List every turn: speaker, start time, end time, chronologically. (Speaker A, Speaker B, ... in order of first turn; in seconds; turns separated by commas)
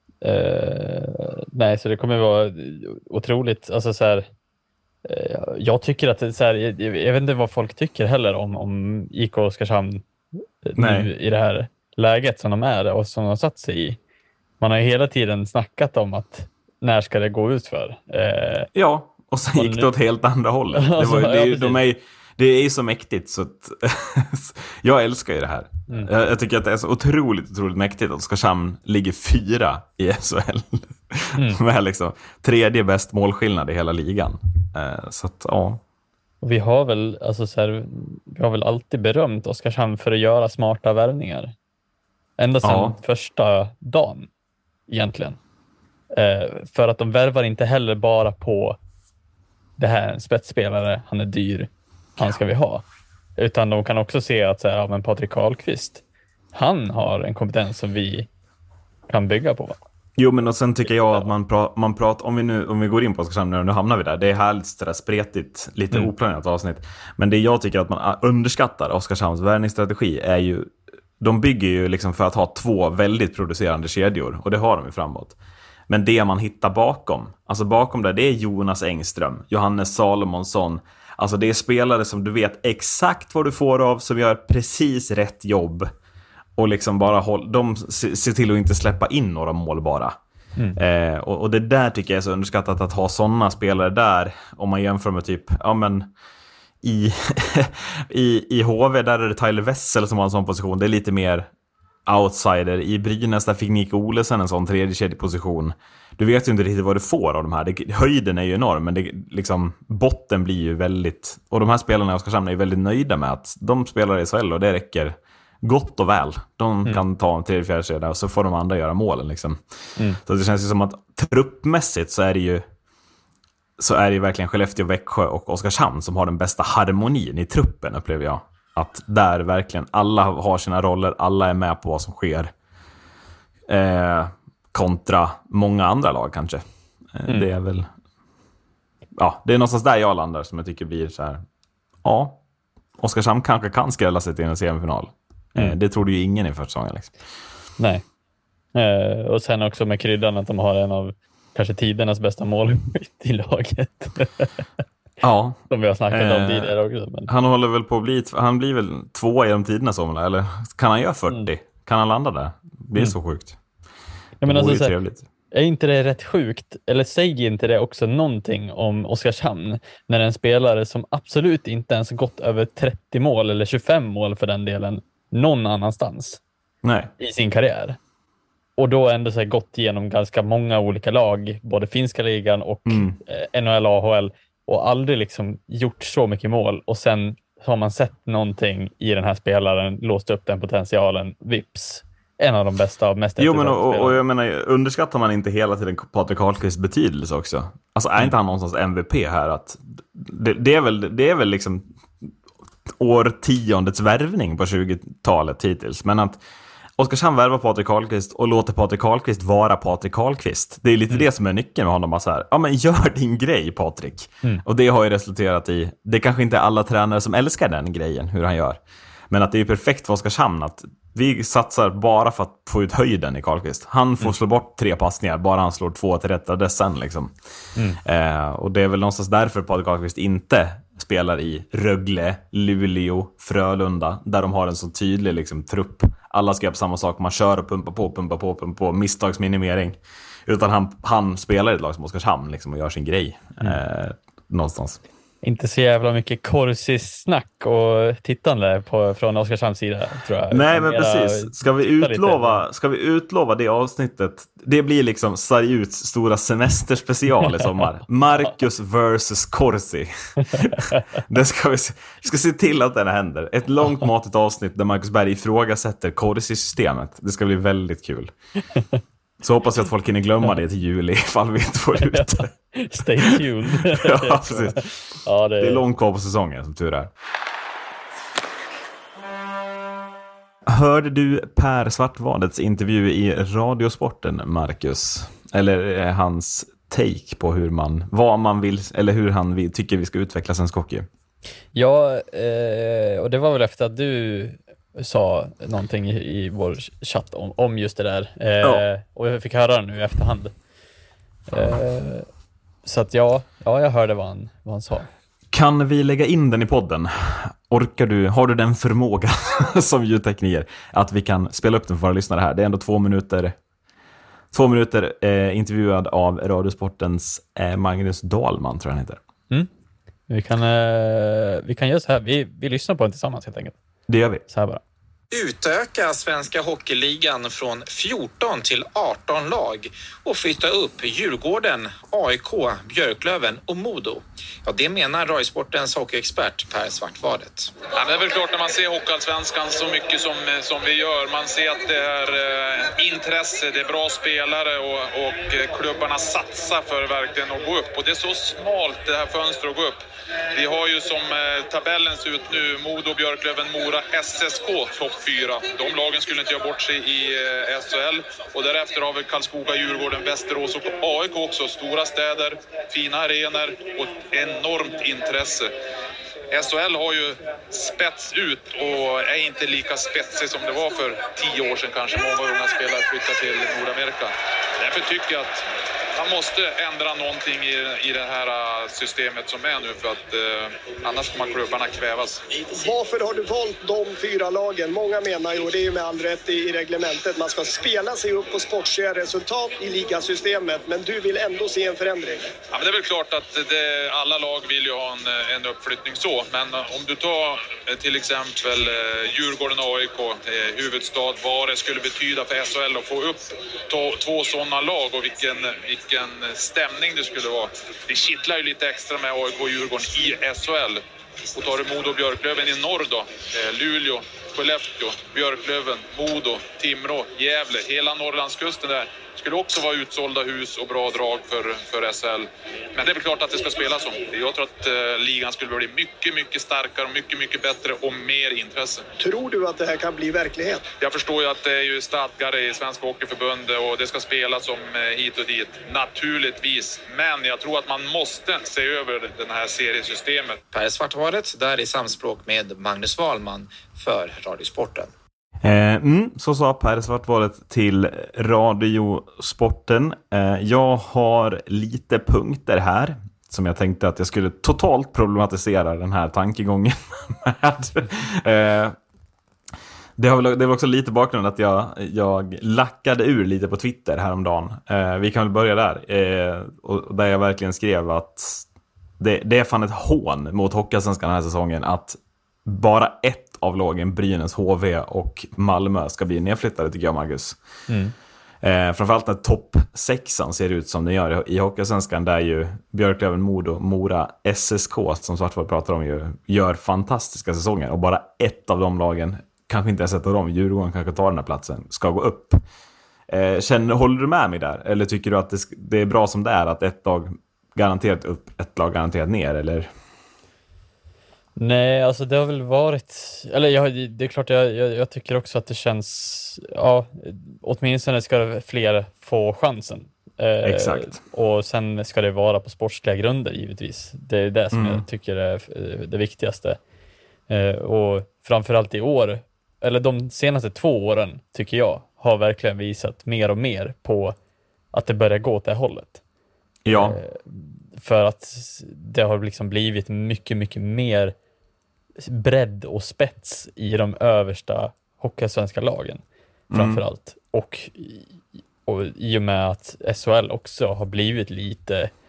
Speaker A: 0.2-4.2, Speaker A: 5.0-10.0, Speaker A: 10.6-14.0, Speaker B: 10.8-11.1, Speaker A: 14.6-18.7, Speaker B: 18.7-35.8, Speaker A: 19.5-19.9, Speaker A: 20.7-21.8, Speaker A: 36.4-41.5, Speaker A: 42.4-44.3, Speaker B: 42.6-43.0, Speaker A: 44.9-45.4, Speaker A: 46.1-48.8, Speaker A: 49.8-52.8, Speaker A: 53.4-56.0, Speaker A: 56.5-58.3, Speaker A: 59.1-59.8, Speaker B: 60.1-75.4, Speaker B: 75.9-85.9, Speaker B: 86.6-90.1, Speaker B: 90.8-96.1, Speaker B: 96.8-101.5, Speaker B: 102.1-119.6, Speaker B: 120.2-122.6, Speaker B: 123.8-132.5, Speaker B: 133.7-137.9, Speaker B: 139.2-141.4, Speaker B: 142.0-142.4, Speaker B: 143.0-147.1, Speaker A: 148.7-154.5, Speaker B: 155.2-156.8, Speaker A: 155.7-157.3, Speaker B: 157.3-163.6, Speaker A: 164.4-164.9, Speaker B: 164.4-165.2, Speaker A: 165.5-176.4, Speaker B: 176.8-177.1, Speaker A: 177.2-178.0, Speaker A: 178.8-194.2, Speaker B: 182.8-183.2, Speaker B: 193.4-202.3, Speaker B: 202.9-206.4, Speaker B: 207.0-227.3, Speaker B: 228.0-245.0, Speaker A: 245.4-252.6, Speaker B: 250.5-268.3, Speaker A: 260.5-261.0, Speaker B: 269.4-272.5, Speaker A: 272.0-275.8, Speaker B: 273.2-274.9, Speaker B: 275.6-277.1, Speaker B: 280.6-291.1, Speaker A: 291.7-300.5, Speaker A: 301.5-302.3, Speaker B: 301.5-301.8, Speaker A: 302.8-305.1, Speaker B: 305.5-313.5, Speaker B: 314.5-319.2, Speaker A: 320.3-323.7, Speaker B: 324.1-324.4, Speaker A: 324.5-324.8, Speaker C: 325.3-337.8, Speaker D: 337.9-350.0, Speaker D: 350.5-365.7, Speaker D: 366.5-375.6, Speaker D: 376.1-382.4, Speaker E: 382.7-392.5, Speaker D: 392.7-411.0, Speaker D: 411.5-429.0, Speaker E: 429.2-430.9, Speaker D: 431.0-440.6, Speaker C: 440.7-445.1, Speaker B: 445.6-458.9, Speaker B: 460.2-468.6, Speaker B: 469.2-477.6, Speaker A: 477.9-478.1, Speaker B: 478.6-492.6, Speaker B: 493.3-499.9, Speaker A: 501.6-516.8, Speaker B: 510.6-511.2, Speaker B: 514.7-515.0, Speaker A: 517.5-524.3, Speaker A: 524.9-526.2, Speaker B: 526.8-527.2, Speaker A: 526.9-531.3, Speaker A: 532.2-542.1, Speaker B: 536.7-537.0